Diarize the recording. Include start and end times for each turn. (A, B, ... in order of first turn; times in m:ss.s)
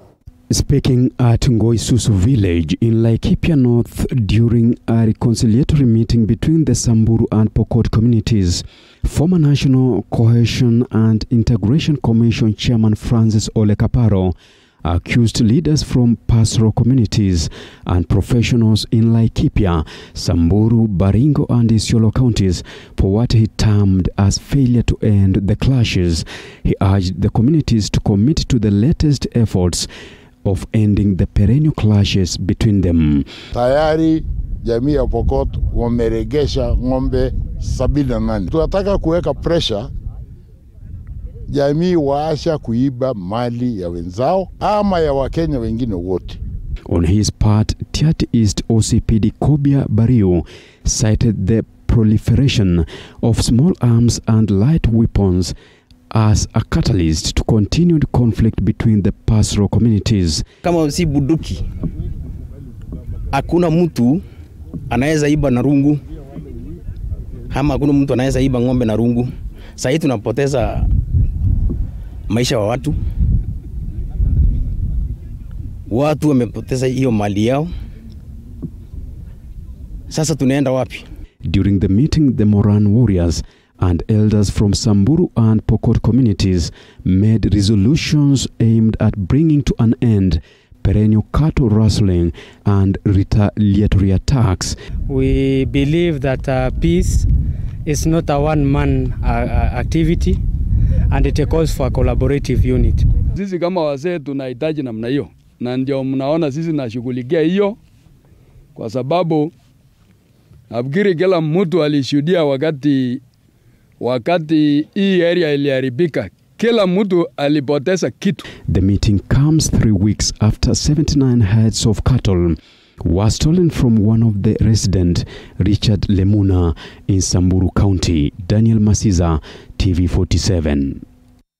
0:00.5-0:29.9 A
0:30.4-0:33.2 A
0:33.5-0:39.9 B
0:41.5-0:46.4 B
0:46.9-0:55.5 A
0:56.1-1:00.4 A
1:00.6-1:01.6 C
1:03.3-1:04.2 C
1:04.9-1:06.0 C
1:07.5-1:10.9 C
1:12.3-1:13.0 C
1:15.9-1:17.7 C
1:20.1-1:21.0 C
1:21.4-1:34.8 A
1:35.1-1:37.3 D
1:37.8-1:40.4 D
1:41.1-1:43.1 D
1:43.3-1:47.8 E
1:48.8-1:49.5 E
1:50.7-1:53.2 E
1:54.0-1:58.4 E
1:58.7-2:11.0 A